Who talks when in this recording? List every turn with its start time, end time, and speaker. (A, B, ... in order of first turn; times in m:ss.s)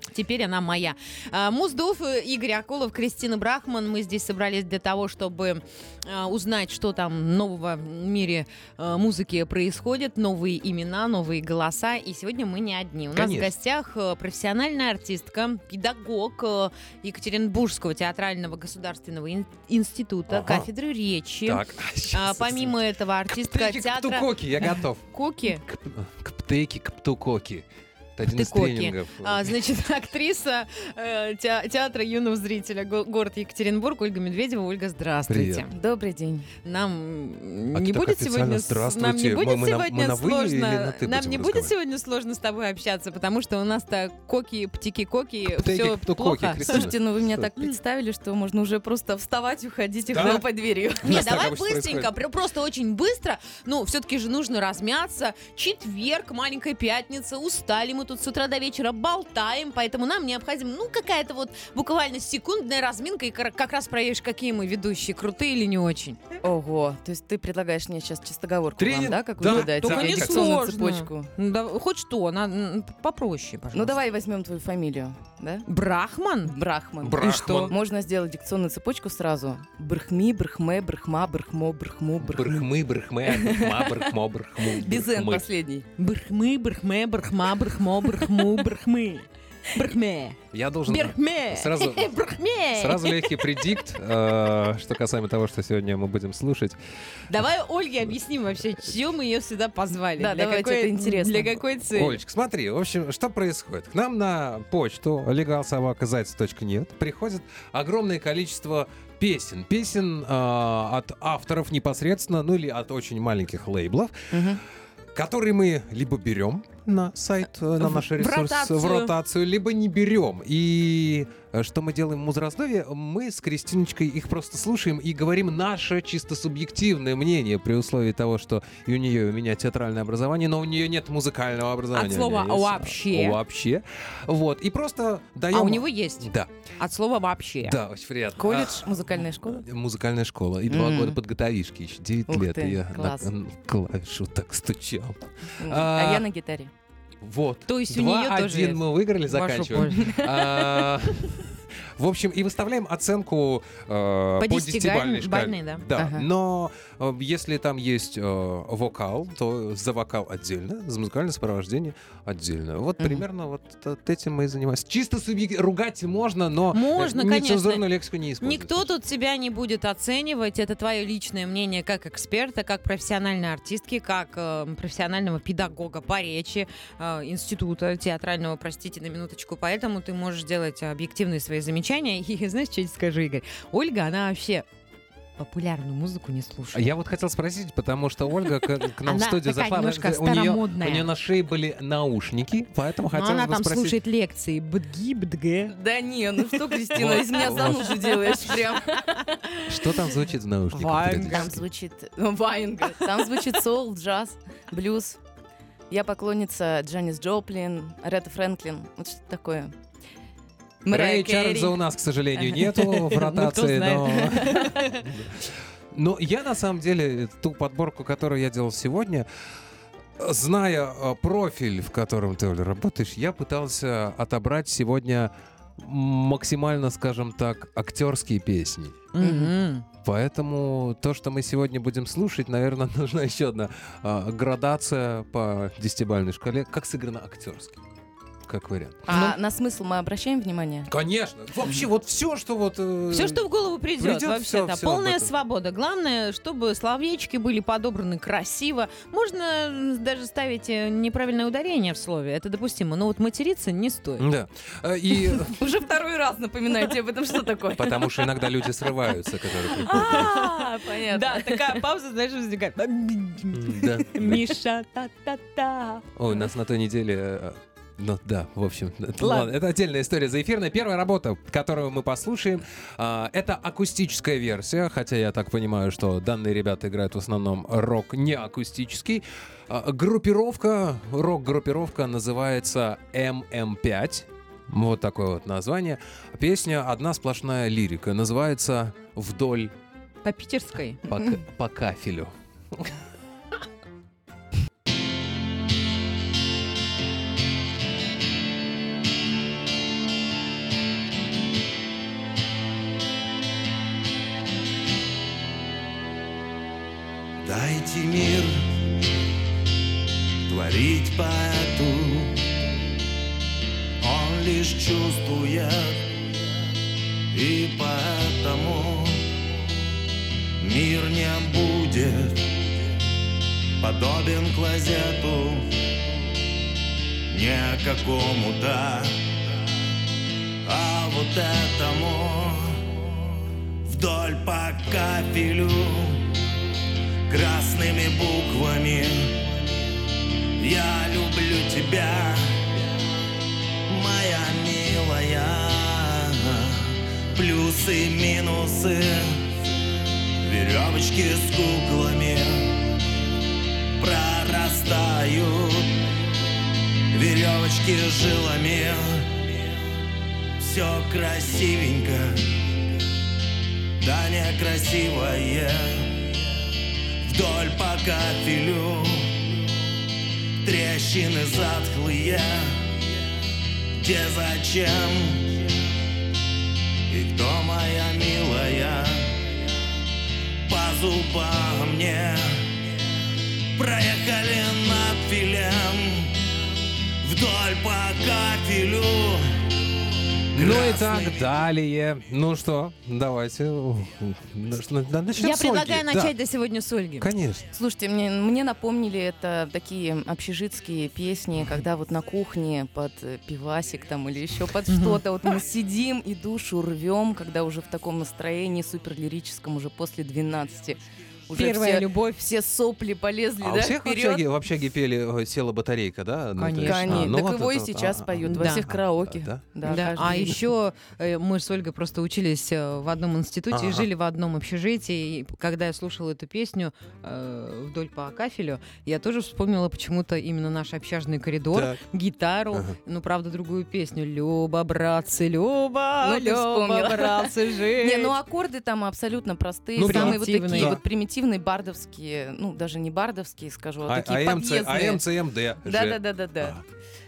0:00.1-0:25.6 A
0:13.1-0:13.5 B
0:20.3-0:20.7 B
0:21.4-0:22.8 B
0:23.3-0:29.5 B
0:28.2-0:35.7 A
0:35.3-0:35.7 B
0:35.7-0:36.5 C
0:36.6-0:46.8 A
0:37.7-0:41.7 B
0:45.5-0:47.5 B
0:46.7-0:51.2 C
0:50.1-0:50.4 B
0:51.0-0:52.1 B
0:51.0-1:06.2 A
1:06.4-1:11.3 C
1:08.8-1:10.6 B
1:09.4-1:14.0 A
1:13.7-1:15.6 C
1:15.6-1:16.6 A
1:16.4-1:22.6 C
1:17.0-1:17.8 B
1:17.2-1:17.7 A
1:22.2-1:25.4 B
1:23.3-1:24.1 C
1:24.6-1:25.9 C
1:26.0-1:33.6 A
1:30.5-1:32.1 B
1:32.7-1:36.8 B
1:37.3-1:42.2 A
1:40.1-1:41.6 C
1:41.9-1:54.5 B
1:54.3-1:54.6 C
1:55.1-2:16.5 B
1:57.8-1:59.1 A
2:11.9-2:13.4 A
2:15.5-2:17.8 A
2:17.6-2:26.2 B
2:18.4-2:19.6 C
2:20.7-2:21.2 C
2:22.3-2:23.3 C
2:25.6-2:26.7 C
2:27.2-2:48.9 B
2:27.7-2:30.2 A
2:34.4-2:35.8 A
2:35.9-2:36.3 C
2:43.0-2:43.2 C
2:46.7-2:47.8 A
2:48.4-3:04.6 A
3:05.4-3:06.8 A
3:06.7-3:14.0 B
3:09.0-3:11.1 A
3:13.1-3:15.8 A
3:15.7-3:19.4 C
3:16.9-3:18.1 B
3:19.7-3:21.6 B
3:20.7-3:21.6 A
3:21.0-3:25.2 C
3:25.9-3:29.7 C
3:30.8-3:31.8 C
3:30.9-3:39.3 B
3:32.4-3:35.0 C
3:33.1-3:34.8 A
3:40.2-3:49.1 B
3:49.1-3:49.8 A
3:49.2-3:49.5 C
3:50.0-3:57.8 B
3:58.4-3:59.4 B
3:59.1-4:00.9 C
4:00.9-4:03.4 B
4:01.6-4:01.8 C
4:03.1-4:14.2 A
4:04.0-4:05.3 B
4:14.2-4:15.6 B
4:15.5-4:18.4 C
4:17.7-4:20.3 B
4:19.9-4:26.0 A
4:19.9-4:21.8 C
4:23.5-4:24.6 B
4:26.2-4:49.7 B
4:29.2-4:29.5 A
4:50.2-4:51.0 A
4:51.1-4:53.0 B
5:07.4-5:08.8 D
5:10.5-5:12.4 D
5:14.0-5:16.1 D
5:17.3-5:19.3 D
5:20.6-5:22.5 D
5:23.8-5:25.7 D
5:27.3-5:29.2 D
5:30.6-5:32.8 D
5:33.8-5:36.3 D
5:37.3-5:39.5 D
5:40.6-5:42.7 D
5:43.9-5:49.4 D
5:50.4-5:52.9 D
5:54.0-5:56.0 D
5:57.1-5:59.7 D
6:00.6-6:02.6 D
6:04.0-6:06.3 D
6:07.2-6:09.6 D
6:10.6-6:12.9 D
6:14.0-6:15.7 D
6:17.1-6:19.4 D
6:20.6-6:22.8 D
6:23.7-6:26.4 D
6:27.2-6:29.5 D
6:30.5-6:31.5 D
6:30.5-6:36.3 B
6:35.3-6:37.3 A
6:37.2-6:37.7 B
6:37.7-6:54.4 C
6:44.9-6:45.2 A
6:51.5-6:52.4 A
6:53.6-7:00.5 B
6:56.6-6:57.4 A
6:56.8-7:00.6 C
6:58.4-6:58.8 A
6:59.8-7:18.3 A
7:03.7-7:04.1 B
7:11.7-7:12.0 B
7:16.2-7:25.2 C
7:20.0-7:21.0 B
7:20.0-7:21.0 A
7:24.0-7:26.8 B
7:25.8-7:26.8 C